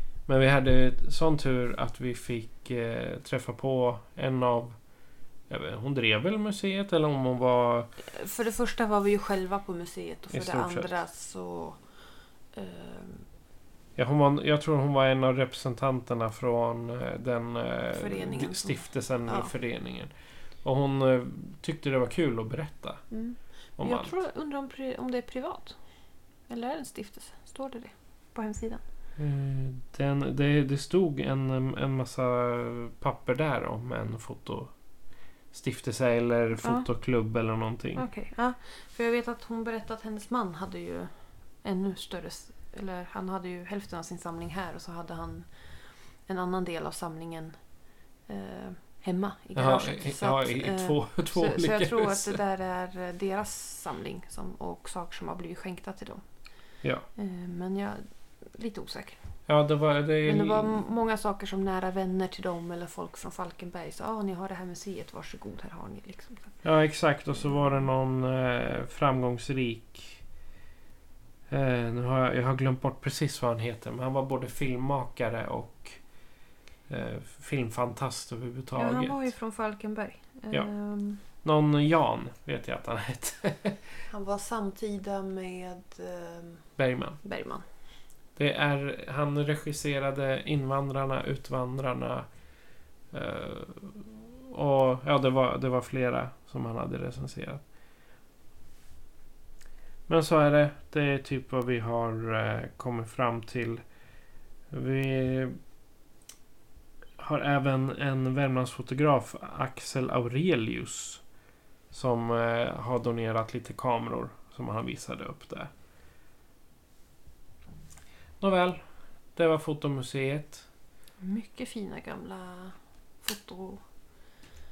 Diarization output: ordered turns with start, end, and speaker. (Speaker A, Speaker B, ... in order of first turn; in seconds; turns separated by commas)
Speaker A: 0.3-4.8, Speaker A: 5.5-7.9, Speaker B: 8.0-11.8, Speaker A: 10.3-10.9, Speaker B: 12.5-13.2, Speaker A: 14.0-20.1, Speaker B: 17.9-19.5, Speaker A: 20.6-23.0, Speaker B: 23.1-25.8, Speaker A: 23.8-24.1, Speaker B: 26.5-28.8, Speaker A: 29.2-34.7, Speaker A: 35.5-38.0, Speaker B: 36.6-36.9, Speaker B: 38.0-41.1, Speaker B: 41.6-45.7, Speaker B: 46.2-47.5, Speaker B: 48.3-56.2, Speaker A: 49.5-52.4, Speaker B: 57.1-59.2, Speaker A: 59.5-60.8, Speaker B: 60.2-66.5, Speaker A: 66.6-70.2, Speaker A: 71.5-76.0, Speaker A: 76.9-79.3, Speaker B: 78.8-81.2, Speaker A: 80.5-83.8, Speaker B: 84.1-86.7, Speaker A: 86.8-87.2, Speaker B: 87.2-87.6, Speaker A: 88.3-92.3, Speaker A: 93.1-97.6, Speaker A: 100.1-103.8, Speaker A: 104.7-105.5, Speaker A: 107.2-111.2, Speaker A: 111.9-115.7, Speaker A: 118.4-118.8, Speaker A: 119.3-120.6, Speaker B: 121.2-123.8